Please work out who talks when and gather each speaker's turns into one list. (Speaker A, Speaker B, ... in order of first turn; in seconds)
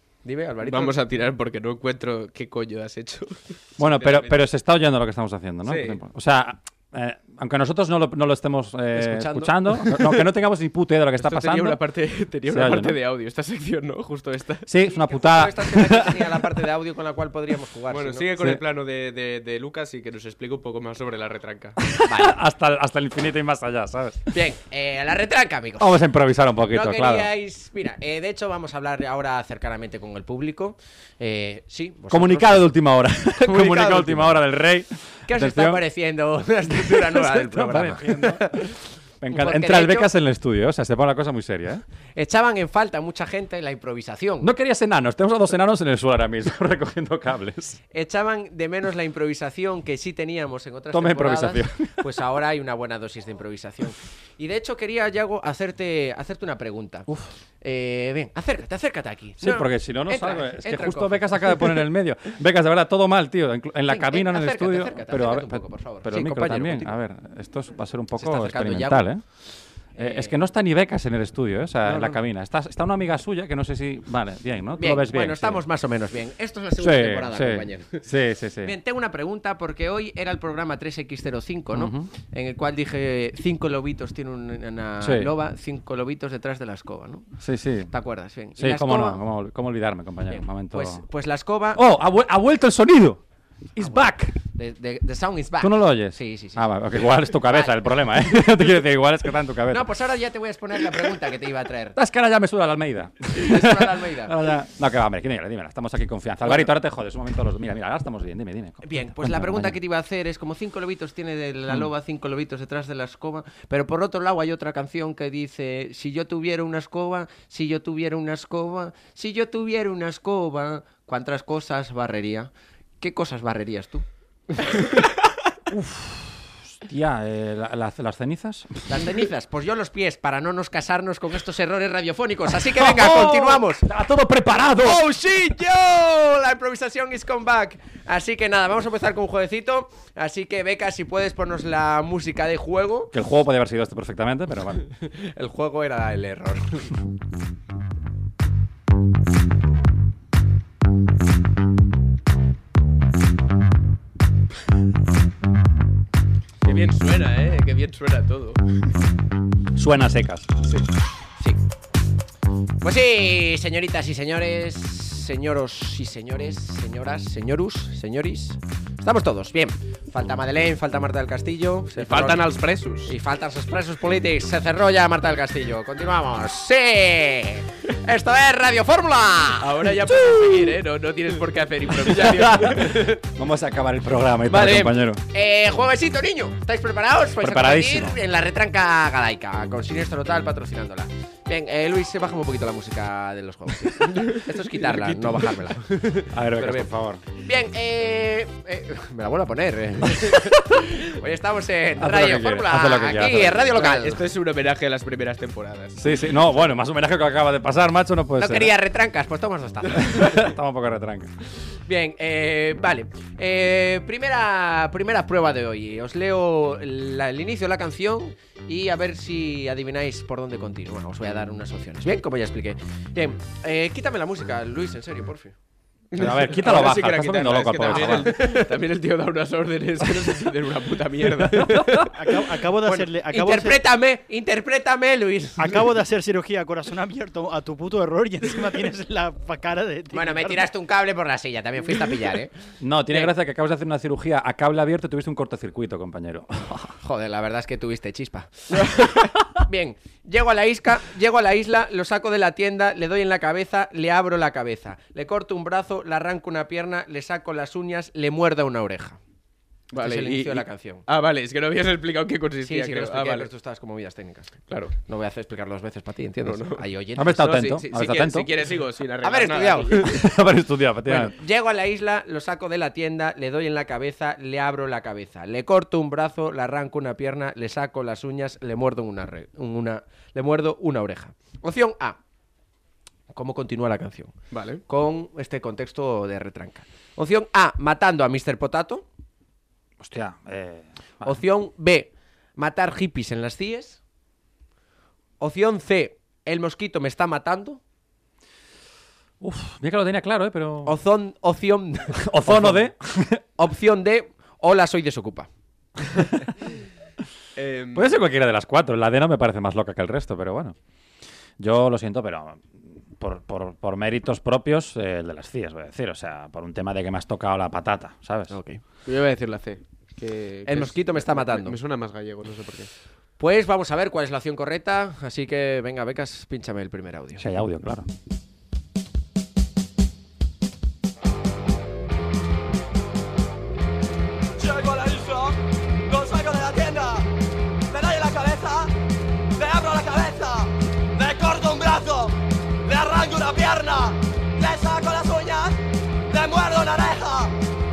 Speaker A: 0.2-0.9, 8.9-10.2, 15.1-18.3, 22.1-22.4, 24.3-25.9, 26.7-32.7, 33.4-34.4, 35.2-38.8, 39.3-40.1, 42.2-44.5, 47.9-57.1, 57.6-61.8, 63.9-66.9, 68.2-70.3, 71.8-72.2, 74.8-78.1, 78.6-87.3, 87.9-89.2, 90.3-91.8, 93.8-97.8, 99.7-102.0, 103.3-104.4, 106.4-106.7, 108.8-122.5, 123.0-124.9, 128.9-133.8, 134.8-143.1, 144.9-146.9, 162.8-172.4, 173.1-180.7, 182.8-183.0, 184.5-204.2, 208.4-210.3, 211.7-225.6, 227.9-228.7, 231.8-232.1, 232.8-235.7, 240.1-242.5, 247.0-259.2, 259.9-261.1, 262.7-267.8, 269.2-270.2, 271.1-282.2, 283.3-284.4, 284.9-289.1, 291.2-294.0, 295.4-297.8, 300.9-302.9, 303.6-305.5, 318.5-318.8, 320.7-321.8, 323.4-327.6
Speaker B: 0.6-4.5, 5.7-6.0, 11.2-14.7, 17.9-21.8, 156.6-158.6, 172.0-173.1, 179.6-183.0, 203.8-206.0, 226.1-231.7, 259.9-263.5, 264.7-264.9, 266.5-266.8, 267.4-270.2, 284.5-284.8, 307.6-308.2, 319.1-322.9
Speaker C: 3.8-11.8, 12.5-12.9, 14.7-16.3, 22.1-24.2, 25.8-27.3, 32.1-35.8, 36.7-38.5, 39.2-41.8, 44.4-47.8, 50.9-52.1, 57.1-57.4, 59.4-75.6, 76.8-78.7, 81.7-82.1, 85.0-85.3, 87.4-87.9, 88.6-91.0, 91.8-93.2, 93.8-94.4, 95.6-99.9, 102.0-109.8, 125.7-129.2, 132.5-135.0, 143.1-144.8, 159.8-160.5, 182.1-185.2, 187.4-188.2, 196.3-197.2, 202.0-203.8, 206.0-208.7, 209.9-211.3, 226.2-228.3, 242.8-246.8, 267.2-268.5, 270.1-271.4, 290.0-291.4, 299.4-300.9, 302.2-303.4, 307.9-310.8, 311.6-318.6, 327.4-328.1
Speaker D: 232.1-233.8, 235.6-240.7
Speaker E: 334.6-337.3, 337.9-338.9, 339.6-345.8, 346.3-347.6